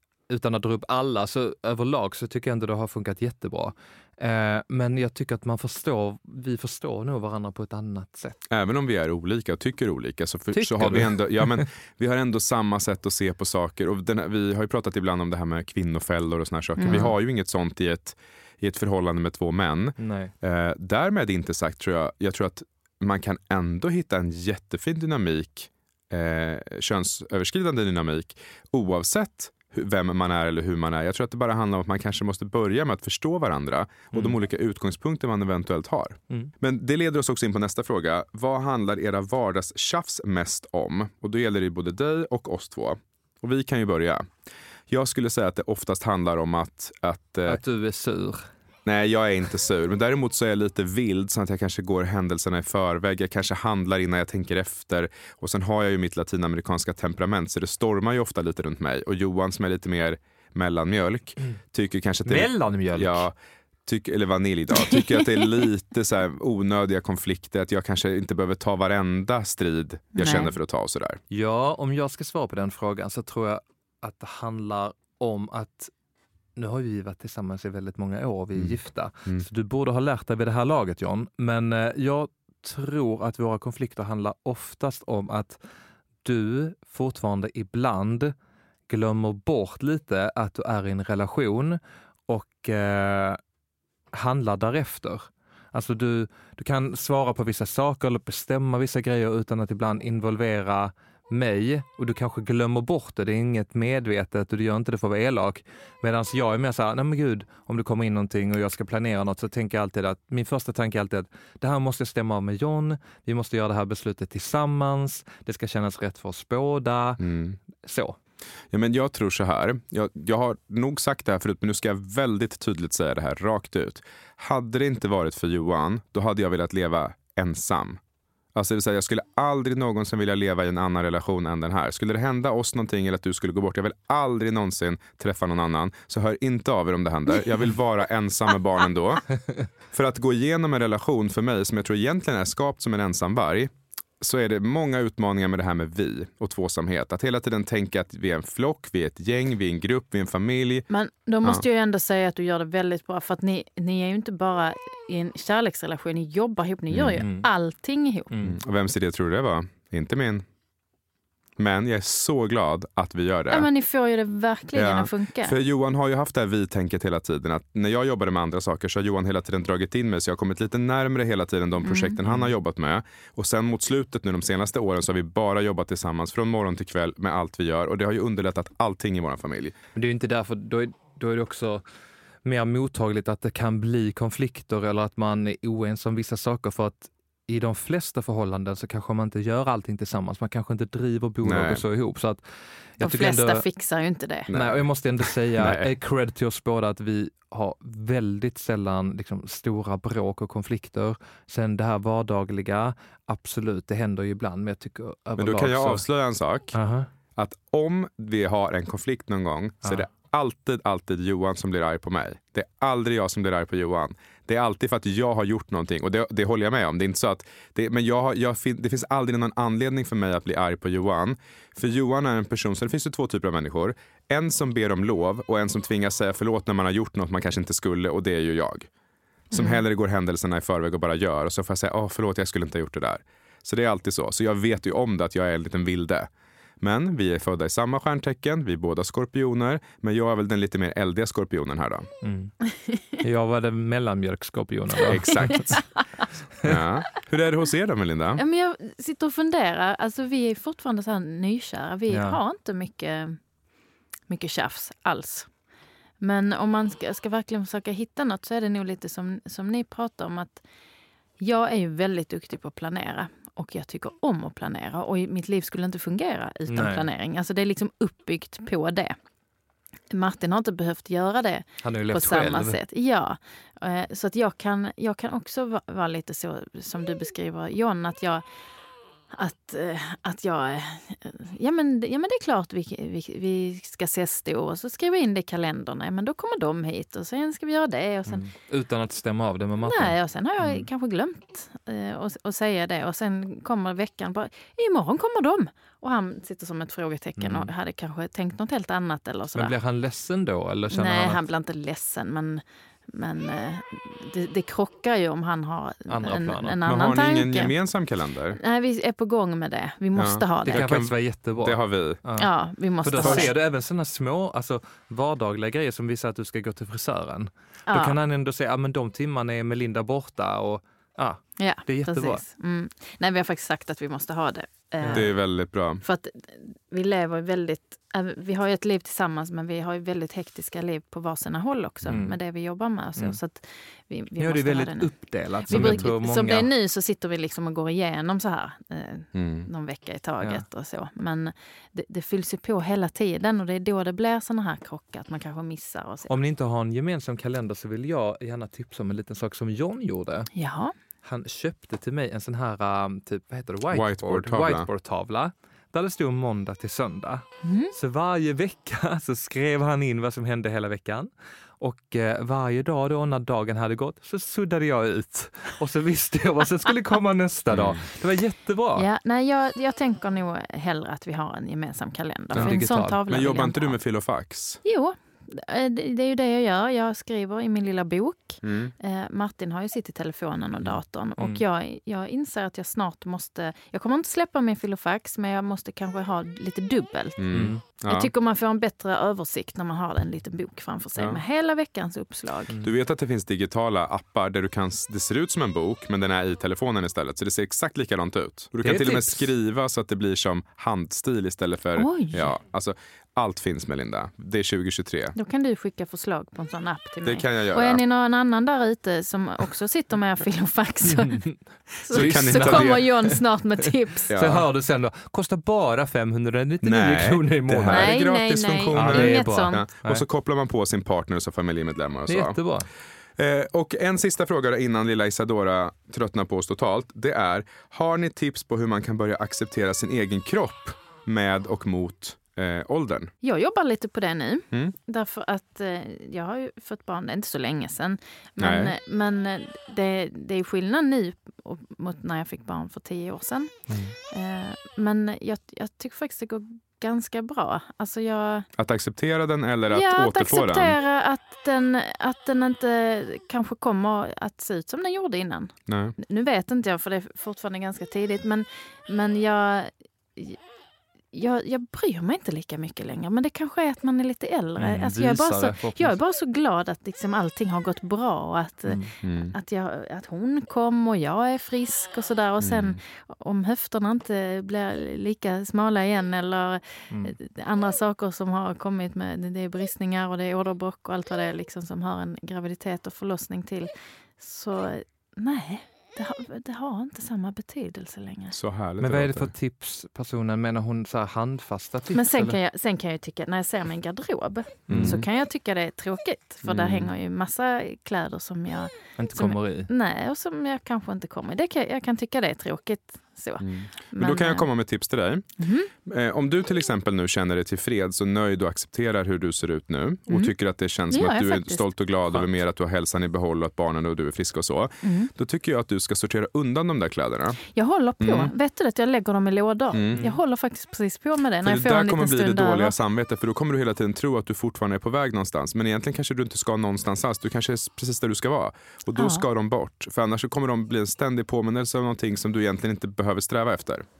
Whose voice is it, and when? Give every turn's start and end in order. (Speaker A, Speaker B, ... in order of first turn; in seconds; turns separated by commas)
Speaker A: 0.3-8.4, Speaker B: 8.5-44.2, Speaker A: 10.5-11.7, Speaker C: 16.8-17.1, Speaker A: 16.8-17.1, Speaker A: 20.0-20.3, Speaker A: 34.1-34.4, Speaker B: 44.9-47.6, Speaker A: 47.5-48.5, Speaker B: 48.9-63.3, Speaker A: 62.2-63.2, Speaker B: 63.9-71.2, Speaker C: 70.2-70.5, Speaker A: 71.3-75.9, Speaker A: 76.5-85.6, Speaker B: 78.5-79.5, Speaker A: 86.2-88.3, Speaker A: 88.9-93.4, Speaker A: 94.1-118.2, Speaker B: 117.2-117.6, Speaker B: 118.7-128.0, Speaker B: 128.5-139.3, Speaker B: 139.9-143.7, Speaker B: 144.2-150.9, Speaker C: 150.9-158.3, Speaker B: 156.9-157.2, Speaker A: 157.2-157.5, Speaker A: 158.3-158.6, Speaker B: 158.4-160.4, Speaker B: 161.6-163.7, Speaker C: 163.5-165.6, Speaker B: 164.7-179.7, Speaker C: 171.8-172.2, Speaker A: 172.2-172.5, Speaker A: 179.9-181.8, Speaker A: 182.4-192.4, Speaker B: 191.4-191.8, Speaker A: 193.0-193.6, Speaker C: 193.0-194.5, Speaker B: 194.5-194.8, Speaker A: 194.5-206.1, Speaker B: 195.5-195.9, Speaker B: 205.4-206.8, Speaker A: 206.7-207.1, Speaker B: 207.3-228.9, Speaker B: 229.5-236.3, Speaker C: 229.5-229.8, Speaker B: 236.8-242.1, Speaker A: 242.2-242.5, Speaker A: 243.2-245.8, Speaker B: 245.1-245.8, Speaker C: 245.3-246.0, Speaker B: 246.6-248.4, Speaker C: 248.3-253.4, Speaker A: 252.1-252.4, Speaker C: 254.3-255.5, Speaker C: 256.2-260.6, Speaker C: 261.4-269.1, Speaker A: 266.7-267.1, Speaker C: 270.1-278.4, Speaker A: 271.8-272.8, Speaker C: 279.3-288.5, Speaker A: 288.3-290.1, Speaker C: 289.8-299.7, Speaker A: 297.4-297.7, Speaker A: 299.5-301.4, Speaker C: 300.9-307.8, Speaker A: 306.1-306.8, Speaker B: 306.9-308.6, Speaker C: 308.6-310.9, Speaker B: 310.1-312.2, Speaker A: 310.6-312.5, Speaker C: 312.4-313.5, Speaker A: 313.0-322.4, Speaker B: 313.2-313.5, Speaker C: 317.9-318.2, Speaker C: 321.6-325.4, Speaker A: 325.0-325.3, Speaker B: 325.1-326.0, Speaker C: 326.0-346.3, Speaker A: 332.1-332.4, Speaker A: 334.4-336.7, Speaker B: 335.7-336.1, Speaker B: 339.3-339.7, Speaker A: 346.3-350.5, Speaker C: 350.5-350.9, Speaker A: 351.2-369.1, Speaker B: 353.9-354.9, Speaker C: 357.6-357.9, Speaker B: 367.7-368.0, Speaker C: 368.9-374.0, Speaker B: 372.5-374.8, Speaker A: 372.5-373.2, Speaker C: 374.8-387.4, Speaker B: 378.6-378.9, Speaker A: 381.4-381.6, Speaker B: 387.4-388.3, Speaker A: 387.5-387.8, Speaker C: 387.9-392.7, Speaker B: 391.2-391.4, Speaker B: 392.8-405.3, Speaker A: 398.8-399.5, Speaker C: 401.9-402.5, Speaker C: 405.3-411.4, Speaker B: 407.2-408.0, Speaker A: 411.1-411.6, Speaker C: 412.0-414.3, Speaker A: 412.1-413.4, Speaker B: 412.1-413.0, Speaker B: 414.3-414.7, Speaker A: 414.3-418.2, Speaker B: 416.8-422.6, Speaker C: 417.9-419.8, Speaker A: 418.9-420.2, Speaker A: 422.3-422.9, Speaker B: 423.4-433.3, Speaker C: 433.4-443.7, Speaker B: 438.6-438.9, Speaker C: 444.3-448.7, Speaker B: 448.8-451.0, Speaker C: 449.9-460.6, Speaker B: 455.9-456.1, Speaker C: 461.3-488.5, Speaker A: 464.8-466.2, Speaker B: 469.2-469.5, Speaker B: 472.6-473.0, Speaker A: 477.1-477.4, Speaker B: 488.5-489.5, Speaker A: 489.0-492.6, Speaker C: 492.1-504.7, Speaker A: 494.9-495.2, Speaker B: 494.9-495.2, Speaker B: 496.6-497.1, Speaker A: 499.2-499.9, Speaker B: 503.6-505.5, Speaker C: 505.6-505.9, Speaker B: 506.1-517.6, Speaker C: 511.1-511.9, Speaker C: 515.0-515.3, Speaker C: 517.7-523.0, Speaker B: 518.2-518.5, Speaker B: 519.9-520.2, Speaker B: 521.6-534.0, Speaker C: 529.1-529.4